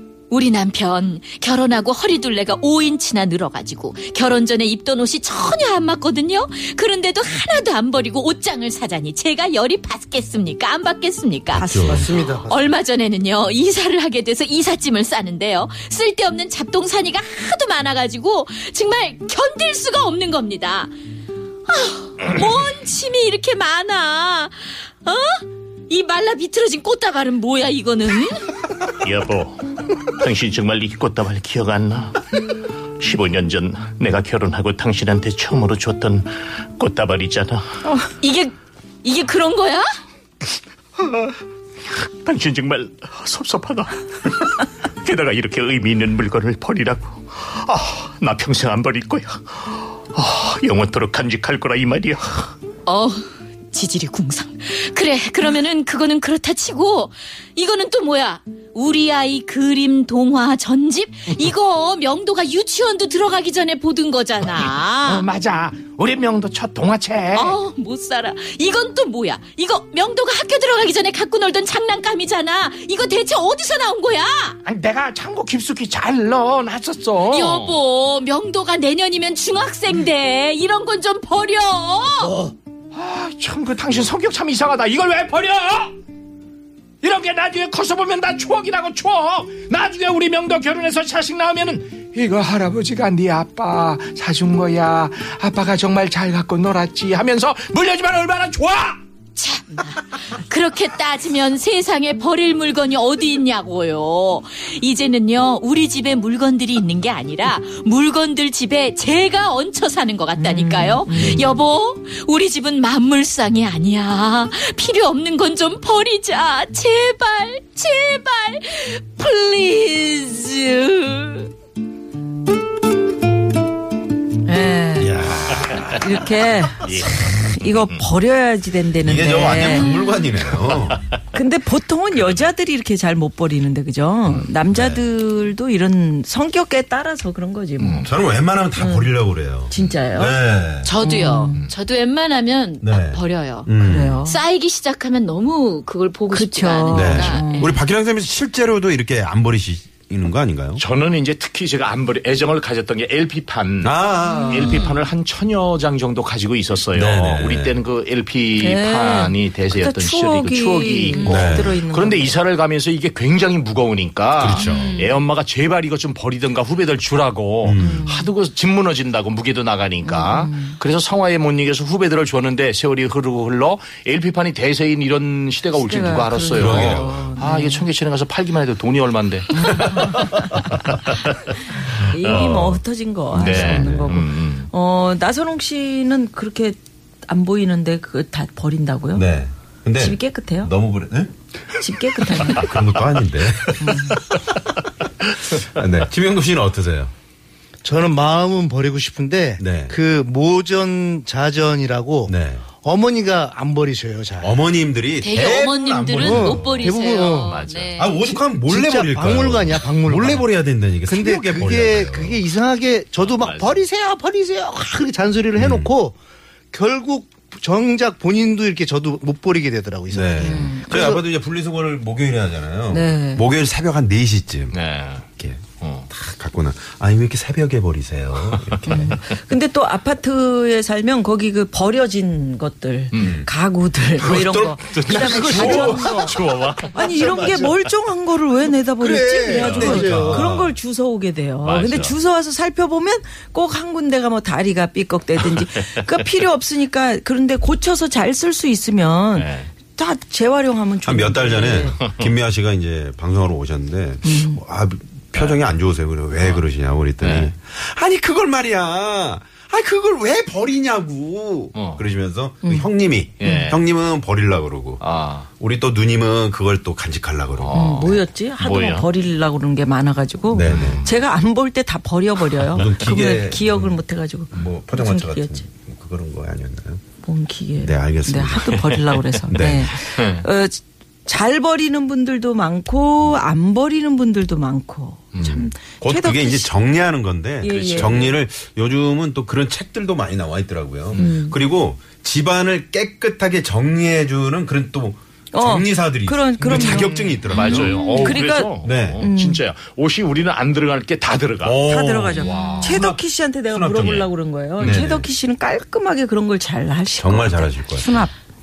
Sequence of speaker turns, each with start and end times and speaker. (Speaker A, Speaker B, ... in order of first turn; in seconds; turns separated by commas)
Speaker A: 0.3-11.7, Speaker B: 11.5-12.1, Speaker C: 11.5-12.1, Speaker D: 11.7-12.6, Speaker A: 12.4-20.9, Speaker A: 21.7-28.5, Speaker E: 29.0-32.2, Speaker E: 33.0-37.6, Speaker A: 38.2-39.9, Speaker E: 41.0-41.3, Speaker E: 41.9-52.5, Speaker A: 52.9-65.2, Speaker E: 65.0-67.5, Speaker A: 67.3-74.6, Speaker E: 74.7-77.8, Speaker A: 77.3-82.3, Speaker E: 82.9-85.9, Speaker E: 87.0-99.0, Speaker A: 99.4-121.5, Speaker C: 110.4-111.5, Speaker C: 124.5-125.1, Speaker B: 125.0-126.2, Speaker C: 126.0-129.9, Speaker E: 126.8-128.0, Speaker B: 129.0-131.0, Speaker C: 131.3-138.1, Speaker B: 134.7-135.0, Speaker E: 137.8-138.1, Speaker B: 138.0-140.9, Speaker C: 138.8-139.1, Speaker C: 139.7-140.4, Speaker A: 140.8-143.7, Speaker C: 141.0-141.6, Speaker B: 142.8-144.2, Speaker C: 143.8-144.4, Speaker A: 144.2-147.7, Speaker C: 146.3-147.7, Speaker B: 146.9-150.8, Speaker E: 150.8-154.0, Speaker B: 153.8-154.8, Speaker E: 154.5-180.0, Speaker B: 156.9-157.8, Speaker C: 158.6-162.3, Speaker B: 161.2-161.8, Speaker B: 164.4-165.0, Speaker A: 164.6-165.2, Speaker B: 167.6-168.0, Speaker C: 167.8-168.3, Speaker C: 170.0-170.8, Speaker C: 175.8-177.8, Speaker B: 176.5-177.3, Speaker C: 179.5-180.6, Speaker B: 179.9-180.2, Speaker C: 182.0-186.8, Speaker B: 182.2-182.8, Speaker E: 182.2-182.7, Speaker B: 183.3-184.1, Speaker E: 183.3-184.7, Speaker C: 187.3-189.2, Speaker B: 189.1-191.3, Speaker C: 190.0-190.7, Speaker C: 191.8-192.7, Speaker B: 192.4-194.1, Speaker C: 193.8-194.2, Speaker B: 195.5-197.1, Speaker D: 197.8-204.6, Speaker B: 199.6-200.0, Speaker B: 202.3-202.7, Speaker B: 204.4-206.9, Speaker A: 205.2-208.3, Speaker D: 206.2-207.7, Speaker E: 207.5-208.0, Speaker B: 208.0-212.4, Speaker D: 208.3-210.5, Speaker D: 211.1-216.2, Speaker E: 213.2-213.8, Speaker B: 215.6-215.9, Speaker D: 216.7-221.2, Speaker B: 220.1-224.8, Speaker C: 220.4-221.1, Speaker C: 222.9-223.4, Speaker E: 224.7-225.2, Speaker B: 225.4-229.2, Speaker E: 225.8-226.1, Speaker C: 228.8-236.3, Speaker E: 233.1-233.4, Speaker B: 233.1-233.5, Speaker B: 234.2-234.6, Speaker E: 234.2-237.5, Speaker B: 235.2-236.2, Speaker D: 235.6-235.9, Speaker C: 236.9-252.0, Speaker D: 237.0-237.7, Speaker D: 239.0-240.5, Speaker E: 239.6-239.9, Speaker B: 239.6-240.8, Speaker E: 241.6-242.2, Speaker E: 249.3-249.7, Speaker B: 251.0-265.0, Speaker C: 254.2-254.6, Speaker E: 257.2-257.5, Speaker E: 261.7-262.0, Speaker E: 263.4-263.8, Speaker C: 263.4-263.7, Speaker E: 265.0-265.5, Speaker B: 265.6-268.2, Speaker E: 267.6-269.1, Speaker C: 267.7-275.6, Speaker B: 270.5-271.1, Speaker E: 270.7-271.1, Speaker B: 272.6-274.0, Speaker B: 274.5-277.0, Speaker C: 277.2-286.7, Speaker B: 277.8-279.0, Speaker B: 279.5-279.9, Speaker E: 280.1-280.4, Speaker E: 285.3-285.7, Speaker B: 285.4-299.2, Speaker C: 287.6-288.3, Speaker E: 287.7-288.3, Speaker C: 291.1-291.6, Speaker C: 295.5-299.6, Speaker E: 296.7-301.8, Speaker B: 301.6-305.3, Speaker C: 301.9-308.3, Speaker E: 302.4-303.0, Speaker E: 304.8-305.1, Speaker B: 307.2-308.2